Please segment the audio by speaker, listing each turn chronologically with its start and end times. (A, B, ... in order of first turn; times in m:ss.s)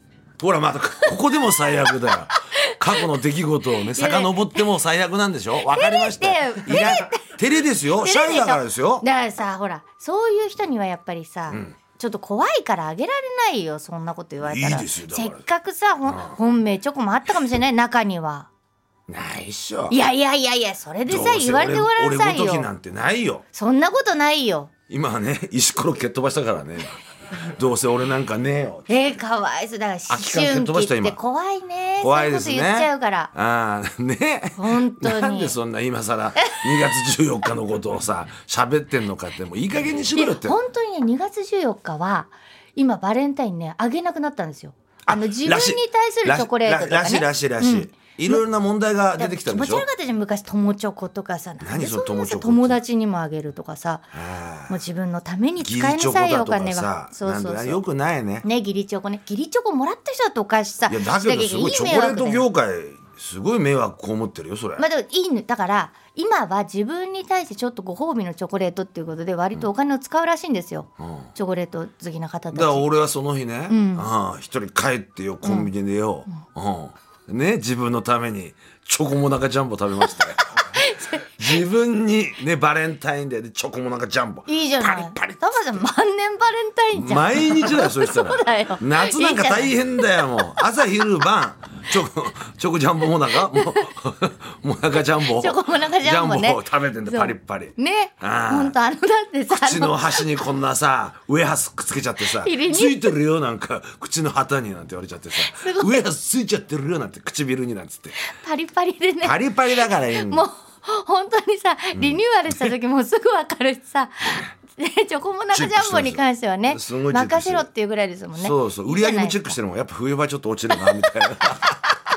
0:00.4-0:09.0 A
0:01.3-0:03.1 B
0:03.9-0:04.6 B
0:05.6-0:07.4 B
0:08.0-0:18.5 B
0:14.4-0:15.4 A
0:16.1-0:16.4 A
0:19.1-0:20.0 A
0:19.9-0:22.7 B
0:21.1-0:23.4 A
0:23.5-0:24.7 B
0:24.9-0:28.9 A
0:28.9-0:33.3 B
0:30.1-0:31.2 A
0:32.0-0:40.6 A
0:34.6-0:35.6 B
0:36.4-0:36.7 B
0:40.2-0:48.4 B
0:45.1-0:49.9 A
0:49.2-0:54.1 B
0:51.6-0:52.8 A
0:54.1-0:54.8 A
0:54.7-0:57.8 B
0:55.6-0:58.5 A
0:58.4-1:02.4 B
1:00.9-1:04.8 A
1:04.8-1:12.9 B
1:11.0-1:11.3 A
1:12.5-1:20.4 A
1:13.7-1:14.1 B
1:15.4-1:15.7 B
1:20.0-1:21.5 B
1:21.4-1:25.8 A
1:24.5-1:30.6 B
1:26.9-1:38.8 A
1:33.4-1:33.9 B
1:35.2-1:40.4 B
1:39.5-1:48.2 A
1:42.2-1:43.2 B
1:45.4-1:46.0 B
1:48.2-1:59.6 B
1:49.2-1:50.5 A
1:51.9-1:52.7 A
1:55.5-1:57.7 A
1:58.4-2:02.0 A
2:00.8-2:01.1 B